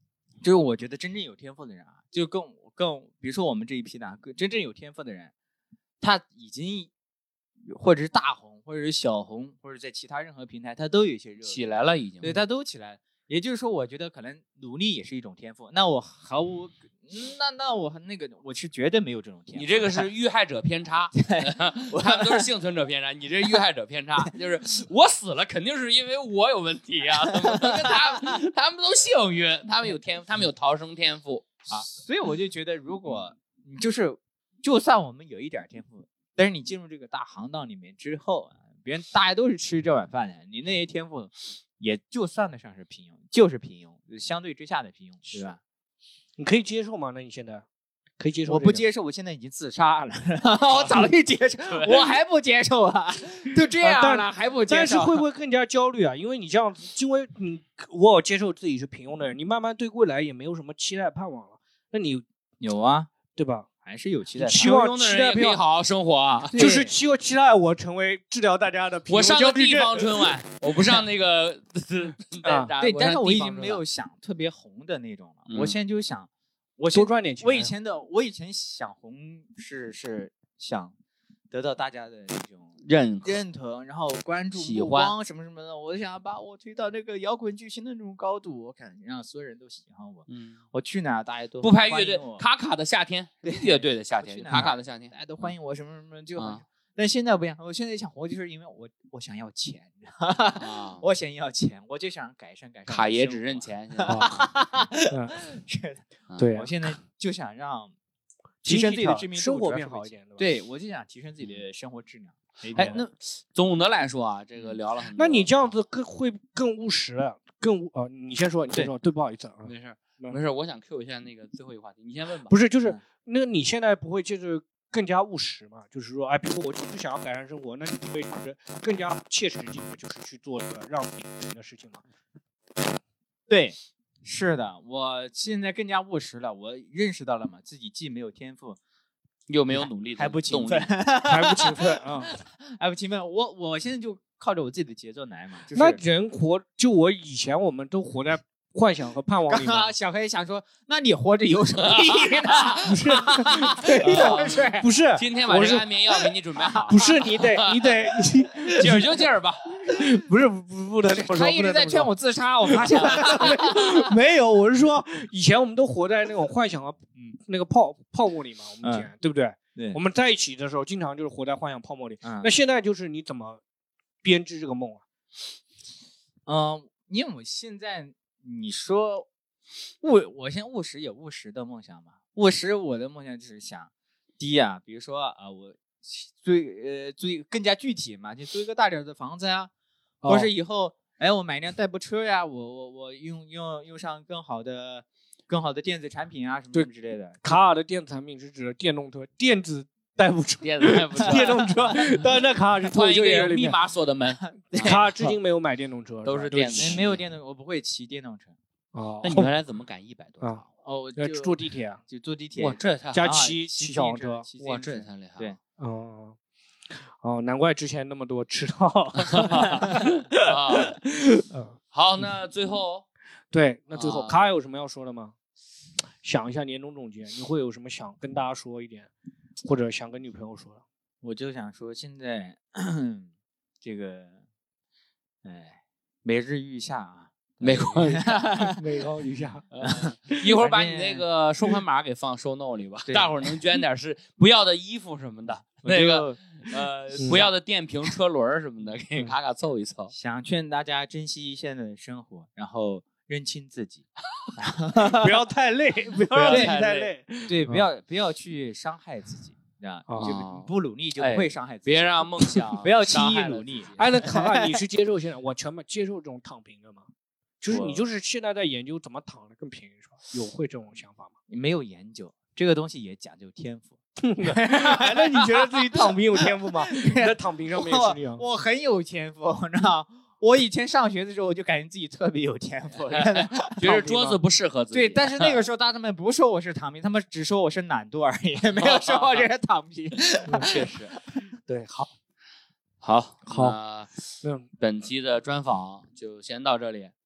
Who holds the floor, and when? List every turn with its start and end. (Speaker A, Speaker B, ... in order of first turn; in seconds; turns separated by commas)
Speaker A: 0.4-5.3, Speaker A: 6.0-6.9, Speaker A: 7.7-11.7, Speaker B: 11.4-12.4, Speaker A: 12.2-20.1, Speaker B: 19.5-31.5, Speaker A: 21.1-22.4, Speaker A: 27.3-28.4, Speaker A: 31.7-45.6, Speaker C: 46.4-47.6, Speaker C: 48.2-48.8, Speaker A: 48.5-55.2, Speaker B: 51.7-52.0, Speaker C: 53.8-62.2, Speaker A: 62.6-63.1, Speaker C: 63.3-63.7, Speaker A: 63.8-64.8, Speaker C: 64.4-65.6, Speaker B: 64.5-66.6, Speaker A: 66.5-66.9, Speaker C: 66.5-70.3, Speaker B: 69.1-73.8, Speaker C: 72.4-72.7, Speaker A: 72.8-80.9, Speaker B: 75.5-75.8, Speaker C: 76.9-77.7, Speaker A: 81.5-92.4, Speaker B: 82.8-83.4, Speaker B: 84.5-85.1, Speaker B: 90.3-90.6, Speaker B: 91.6-95.1, Speaker A: 93.4-107.9, Speaker B: 96.4-96.6, Speaker B: 100.5-101.0, Speaker B: 102.9-104.6, Speaker C: 104.0-104.3, Speaker C: 105.1-105.4, Speaker C: 106.4-106.7, Speaker A: 108.6-113.0, Speaker C: 108.6-110.4, Speaker C: 112.7-113.0, Speaker B: 112.7-115.7, Speaker C: 115.2-120.4, Speaker B: 119.6-122.5, Speaker C: 122.5-132.0, Speaker A: 133.5-138.8, Speaker B: 139.5-140.9, Speaker A: 139.7-146.0, Speaker C: 141.2-142.3, Speaker C: 145.7-149.9, Speaker A: 149.5-154.9, Speaker B: 151.8-152.8, Speaker C: 152.8-155.9, Speaker B: 154.0-154.5, Speaker B: 155.2-158.0, Speaker A: 156.5-157.0, Speaker C: 156.9-159.1, Speaker B: 158.7-159.6, Speaker C: 159.9-162.1, Speaker A: 161.2-164.1, Speaker C: 162.7-173.6, Speaker A: 168.8-169.1, Speaker A: 169.7-170.0, Speaker A: 172.2-172.5, Speaker C: 174.2-175.0, Speaker A: 176.4-179.3, Speaker A: 180.0-189.7, Speaker C: 190.2-190.5, Speaker A: 190.2-197.6, Speaker C: 197.4-203.8, Speaker B: 200.6-202.1, Speaker B: 202.8-205.0, Speaker A: 204.7-205.0, Speaker C: 204.8-207.0, Speaker B: 206.2-207.2, Speaker A: 206.7-208.6, Speaker C: 208.9-209.5, Speaker B: 209.2-210.6, Speaker A: 210.8-215.6, Speaker C: 211.2-212.0, Speaker B: 212.6-213.4, Speaker C: 213.1-214.4, Speaker B: 214.6-215.5, Speaker C: 215.8-216.3, Speaker C: 217.2-221.8, Speaker B: 219.4-221.0, Speaker B: 221.9-223.0, Speaker C: 223.5-225.3, Speaker B: 223.9-224.4, Speaker C: 226.2-229.1, Speaker C: 229.6-230.8, Speaker A: 231.2-233.3, Speaker A: 233.8-234.4, Speaker A: 235.4-238.8, Speaker B: 237.6-238.6, Speaker C: 238.7-239.6, Speaker B: 239.7-250.1, Speaker A: 239.8-241.8, Speaker A: 243.1-243.6, Speaker A: 245.8-247.5, Speaker C: 247.2-247.4, Speaker A: 250.1-255.4, Speaker C: 255.1-257.9, Speaker A: 256.3-256.8, Speaker B: 256.3-257.1, Speaker A: 257.5-264.8, Speaker C: 260.1-260.3, Speaker B: 260.2-264.0, Speaker C: 264.0-267.1, Speaker C: 267.6-271.3, Speaker A: 267.7-268.0, Speaker A: 271.5-283.9, Speaker C: 274.2-278.4, Speaker B: 283.1-285.6, Speaker C: 283.8-284.4, Speaker A: 284.9-291.1, Speaker B: 288.8-289.5, Speaker B: 290.6-291.1, Speaker C: 291.7-292.1, Speaker B: 293.0-294.1, Speaker C: 293.5-293.8, Speaker B: 294.8-297.1